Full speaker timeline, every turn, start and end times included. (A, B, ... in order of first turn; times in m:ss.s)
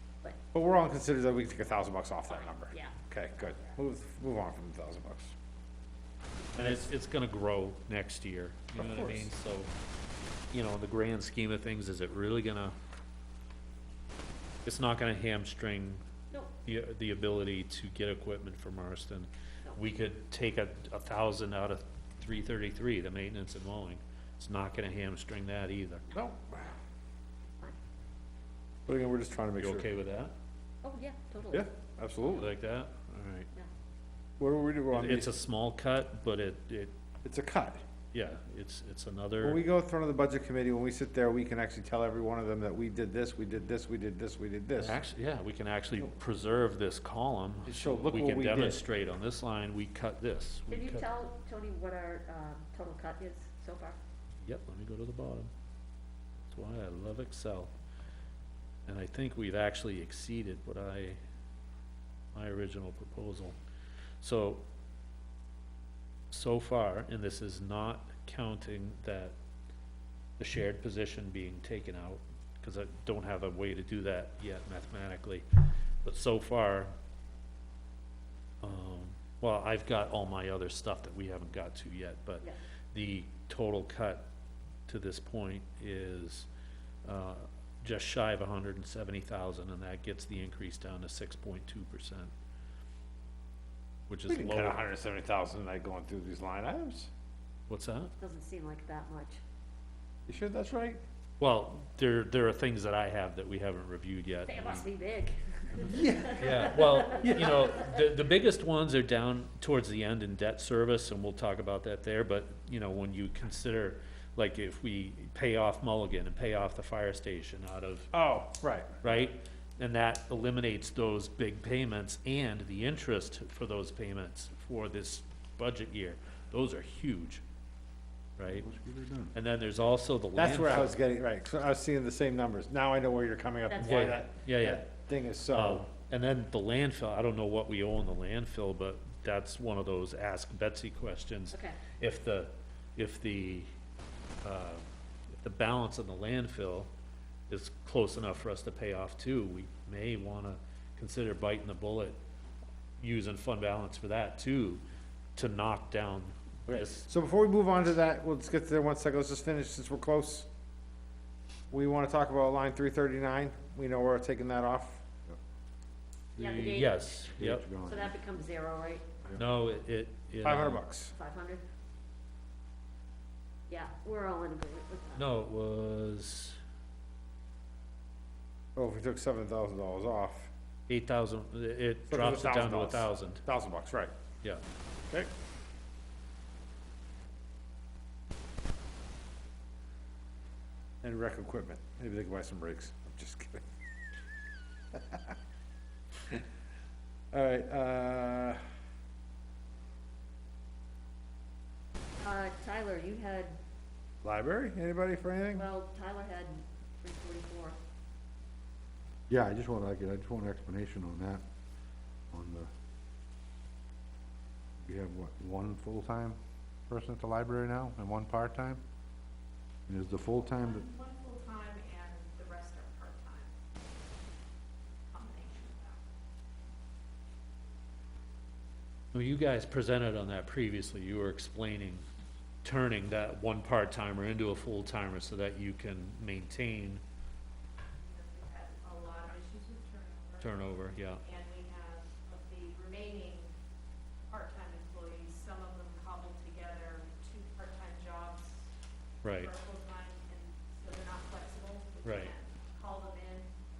0:00.5-0:05.3 A
0:02.3-0:03.0 B
0:06.5-0:09.7 C
0:10.5-0:12.8 C
0:14.6-0:16.0 C
0:16.6-0:26.0 C
0:26.1-0:26.7 A
0:28.9-0:29.9 A
0:29.6-0:30.3 C
0:30.8-0:31.7 B
0:31.5-0:32.5 A
0:32.2-0:33.5 C
0:34.4-0:35.3 A
0:34.9-0:36.9 C
0:37.2-0:37.8 A
0:38.1-0:39.6 C
0:39.4-0:45.0 A
0:44.8-0:51.1 C
0:47.7-0:48.8 A
0:50.7-0:54.0 B
0:54.4-0:55.5 C
0:56.4-0:57.7 C
0:58.9-1:01.2 C
1:02.3-1:03.6 C
1:04.2-1:04.6 C
1:06.3-1:09.4 C
1:10.4-1:15.4 C
1:16.0-1:16.9 C
1:18.6-1:24.3 C
1:24.9-1:26.5 C
1:27.0-1:32.3 C
1:34.1-1:34.8 C
1:34.3-1:37.1 A
1:37.7-1:38.1 C
1:38.2-1:39.4 B
1:40.3-1:41.0 A
1:41.4-1:44.9 C
1:44.5-1:47.7 B
1:45.9-1:47.6 A
1:46.3-1:58.1 C
1:58.1-1:59.0 A
1:59.0-2:07.4 C
2:08.4-2:08.7 C
2:08.5-2:09.3 D
2:09.3-2:11.0 C
2:10.3-2:15.9 A
2:13.7-2:14.2 B
2:13.8-2:14.9 C
2:15.5-2:23.7 C
2:21.5-2:21.8 B
2:24.4-2:24.8 C
2:25.4-2:26.9 C
2:27.5-2:32.2 C
2:33.0-2:34.8 C
2:35.4-2:37.1 C
2:36.7-2:40.5 A
2:41.7-2:45.0 A
2:46.4-2:47.7 C
2:46.4-2:49.0 B
2:47.3-2:48.2 D
2:49.4-2:50.8 C
2:50.4-2:51.1 A
2:51.1-2:51.6 B
2:53.7-2:55.4 B
2:55.1-2:56.6 C
2:58.8-3:00.5 A
3:00.9-3:03.4 C
3:02.1-3:04.1 A
3:11.0-3:13.6 A
3:14.9-3:15.3 A
3:17.3-3:18.6 A
3:22.2-3:23.6 B
3:24.2-3:25.7 A
3:25.5-3:27.8 B
3:29.3-3:31.4 D
3:32.3-3:32.7 D
3:34.8-3:36.4 D
3:36.9-3:38.8 D
3:39.9-3:40.8 D
3:40.5-3:43.5 E
3:45.1-3:46.0 E
3:49.1-3:52.0 C
3:52.6-3:57.0 C
3:58.0-4:00.7 E
4:00.4-4:01.2 C
4:01.2-4:03.5 E
4:04.3-4:08.7 E
4:09.2-4:09.5 C
4:09.3-4:13.5 E
4:12.0-4:12.3 C